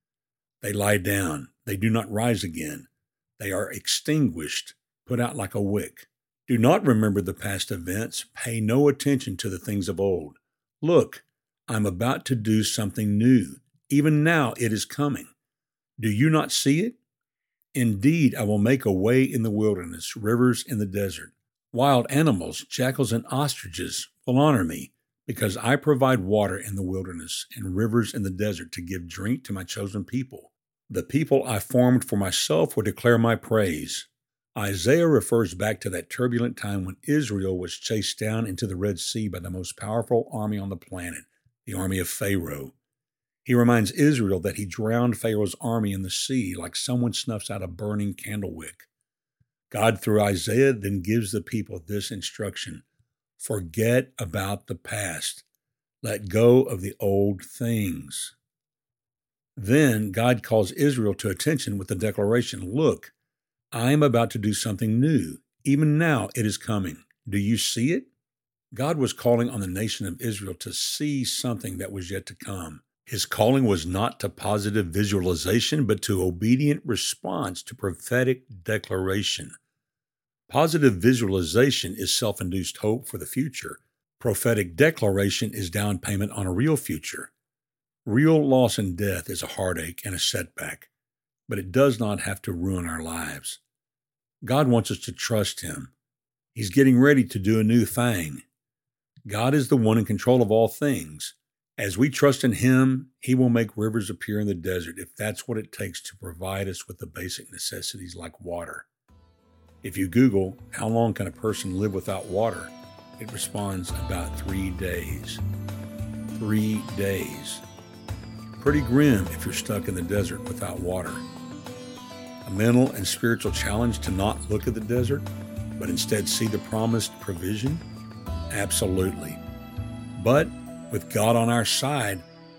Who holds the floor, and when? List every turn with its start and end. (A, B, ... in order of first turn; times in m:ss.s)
0:00.6-0:15.3 A
0:16.0-0:17.0 A
0:17.7-0:42.7 A
0:43.4-0:48.9 A
0:49.7-0:52.8 A
0:53.4-0:55.4 A
0:56.0-0:58.4 A
0:59.6-1:03.1 A
1:03.7-1:08.1 A
1:08.7-1:19.6 A
1:20.5-1:27.3 A
1:28.0-1:30.9 A
1:31.5-1:33.6 A
1:34.4-1:35.9 A
1:36.5-1:38.4 A
1:39.3-1:48.9 A
1:49.8-1:55.4 A
1:56.4-1:57.6 A
1:58.6-2:01.2 A
2:02.4-2:07.8 A
2:08.5-2:09.4 A
2:10.2-2:12.2 A